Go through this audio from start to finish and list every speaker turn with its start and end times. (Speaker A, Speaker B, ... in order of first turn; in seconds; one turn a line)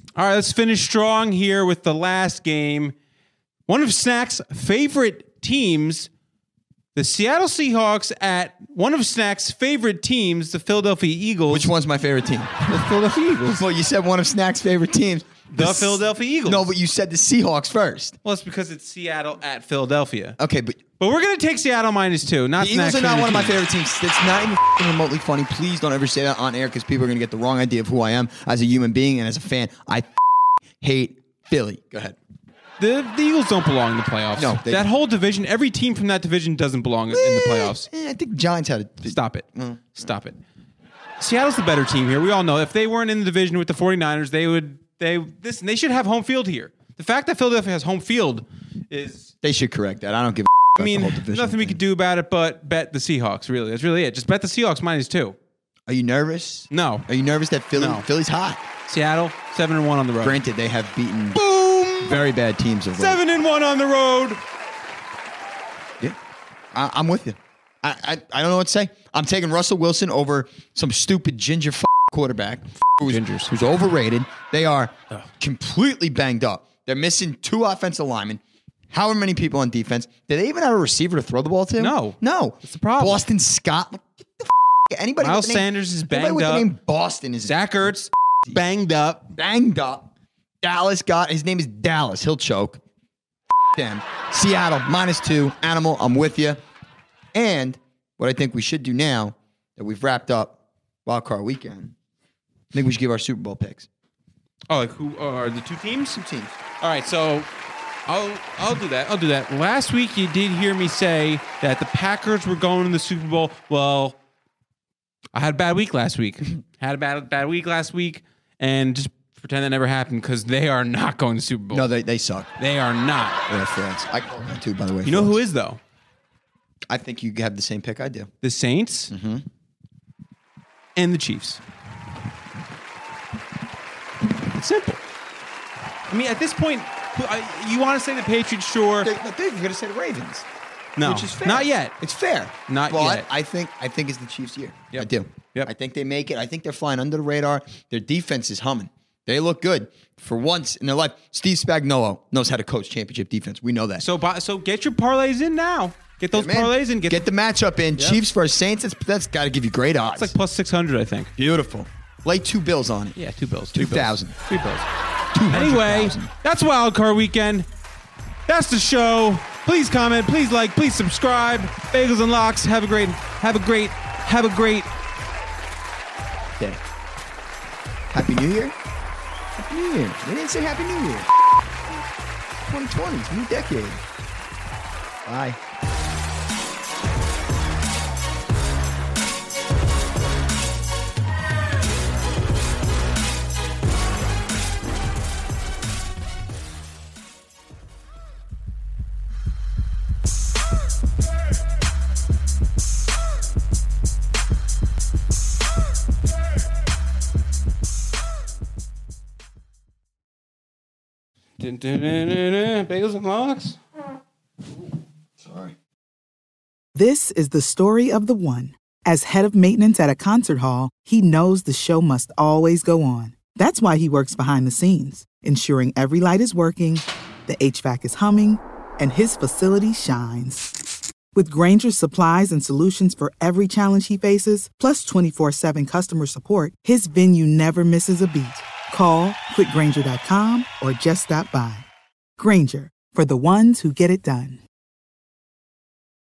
Speaker A: 0.1-2.9
Speaker A: 3.7-6.1
Speaker A: 6.9-11.7
Speaker B: 11.5-12.8
Speaker A: 12.6-13.6
Speaker B: 13.4-18.2
Speaker A: 15.5-16.7
Speaker A: 18.2-20.4
Speaker B: 20.4-20.8
Speaker A: 21.0-23.6
Speaker B: 22.6-30.1
Speaker B: 30.8-32.2
Speaker A: 32.8-37.9
Speaker B: 34.4-34.9
Speaker B: 37.1-40.1
Speaker A: 39.0-40.4
Speaker A: 41.2-49.3
Speaker B: 49.4-51.8
Speaker A: 50.8-55.4
Speaker B: 55.9-58.6
Speaker A: 56.7-57.1
Speaker A: 57.7-58.1
Speaker A: 58.9-60.4
Speaker B: 60.2-61.4
Speaker A: 61.3-62.2
Speaker B: 62.0-63.2
Speaker A: 63.0-64.4
Speaker B: 66.7-87.9
Speaker A: 73.0-73.5
Speaker A: 81.8-83.3
Speaker A: 85.2-86.7
Speaker A: 87.4-89.2
Speaker B: 89.3-90.0
Speaker B: 90.6-92.8
Speaker B: 93.8-96.6
Speaker B: 97.3-101.9
Speaker B: 102.7-103.9
Speaker A: 104.7-106.2
Speaker B: 106.2-106.5
Speaker A: 106.8-107.5
Speaker A: 108.1-114.2
Speaker A: 115.3-121.9
Speaker B: 121.7-122.5
Speaker A: 122.6-123.4
Speaker B: 123.5-125.4
Speaker A: 125.0-125.8
Speaker B: 126.9-128.3
Speaker A: 128.4-129.1
Speaker B: 129.1-129.4
Speaker A: 130.9-131.6
Speaker A: 134.4-135.0
Speaker A: 136.1-139.1
Speaker B: 139.0-140.4
Speaker A: 141.0-141.9
Speaker B: 141.0-154.1
Speaker A: 142.7-143.3
Speaker A: 144.9-145.7
Speaker A: 154.0-157.3
Speaker B: 156.3-160.3
Speaker A: 157.9-158.2
Speaker A: 160.2-161.3
Speaker B: 161.4-163.2
Speaker A: 163.2-164.9
Speaker B: 163.7-164.4
Speaker B: 165.3-166.3
Speaker A: 165.5-167.7
Speaker A: 168.5-174.9
Speaker B: 178.1-178.8
Speaker B: 179.6-181.3
Speaker B: 182.7-184.0
Speaker B: 185.3-185.6
Speaker A: 211.6-213.8
Speaker B: 215.4-215.7
Speaker C: 216.9-230.7
Speaker C: 231.3-241.9
Speaker C: 242.4-244.6